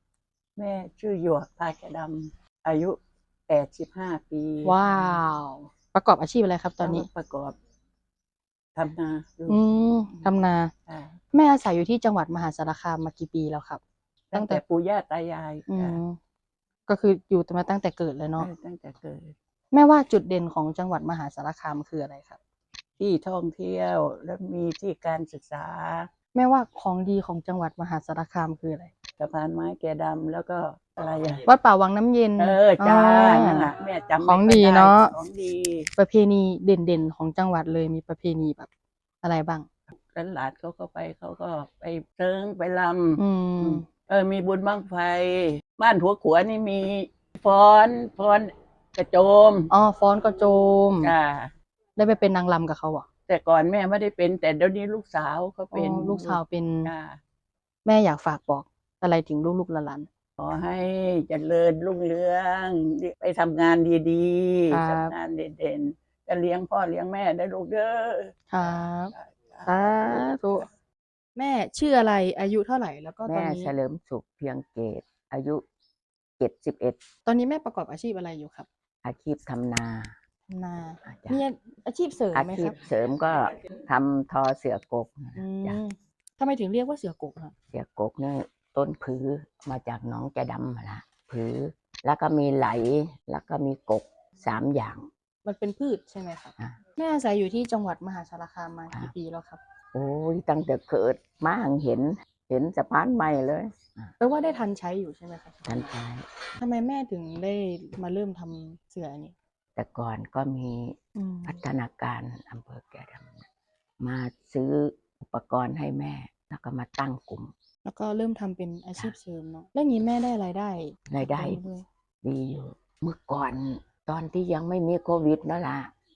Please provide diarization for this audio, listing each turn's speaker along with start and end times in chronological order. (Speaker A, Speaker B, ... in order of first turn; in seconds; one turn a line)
Speaker A: 0.6-3.0
Speaker A: 3.5-5.2
Speaker B: 4.6-7.1
Speaker A: 6.8-7.6
Speaker A: 8.8-11.2
Speaker B: 9.5-10.7
Speaker B: 11.3-13.8
Speaker A: 14.3-16.0
Speaker B: 14.3-14.6
Speaker B: 15.7-16.2
Speaker B: 16.9-18.5
Speaker A: 18.4-19.3
Speaker B: 19.7-22.4
Speaker A: 23.0-26.1
Speaker B: 26.3-28.9
Speaker A: 29.2-31.4
Speaker B: 31.4-33.7
Speaker A: 32.4-35.9
Speaker B: 34.2-35.1
Speaker B: 36.0-38.7
Speaker B: 39.2-39.7
Speaker A: 39.9-49.7
Speaker B: 43.2-43.8
Speaker B: 49.7-51.1
Speaker A: 51.0-51.5
Speaker B: 52.0-53.0
Speaker A: 53.3-57.2
Speaker B: 55.6-56.9
Speaker B: 57.8-60.1
Speaker A: 60.4-68.3
Speaker B: 64.7-65.1
Speaker B: 68.5-69.1
Speaker A: 69.1-70.3
Speaker B: 69.7-70.7
Speaker B: 71.3-73.7
Speaker C: 73.2-75.6
Speaker C: 76.4-77.0
Speaker B: 77.2-78.7
Speaker C: 79.0-80.2
Speaker B: 80.5-82.8
Speaker C: 81.0-81.4
Speaker C: 82.3-85.8
Speaker B: 85.3-87.5
Speaker C: 87.7-95.1
Speaker B: 95.4-99.6
Speaker C: 99.9-104.1
Speaker B: 104.2-106.0
Speaker C: 105.7-106.3
Speaker B: 106.6-109.3
Speaker C: 109.8-113.5
Speaker B: 111.2-111.5
Speaker C: 114.0-117.5
Speaker B: 117.8-121.8
Speaker C: 121.1-121.6
Speaker C: 122.2-125.9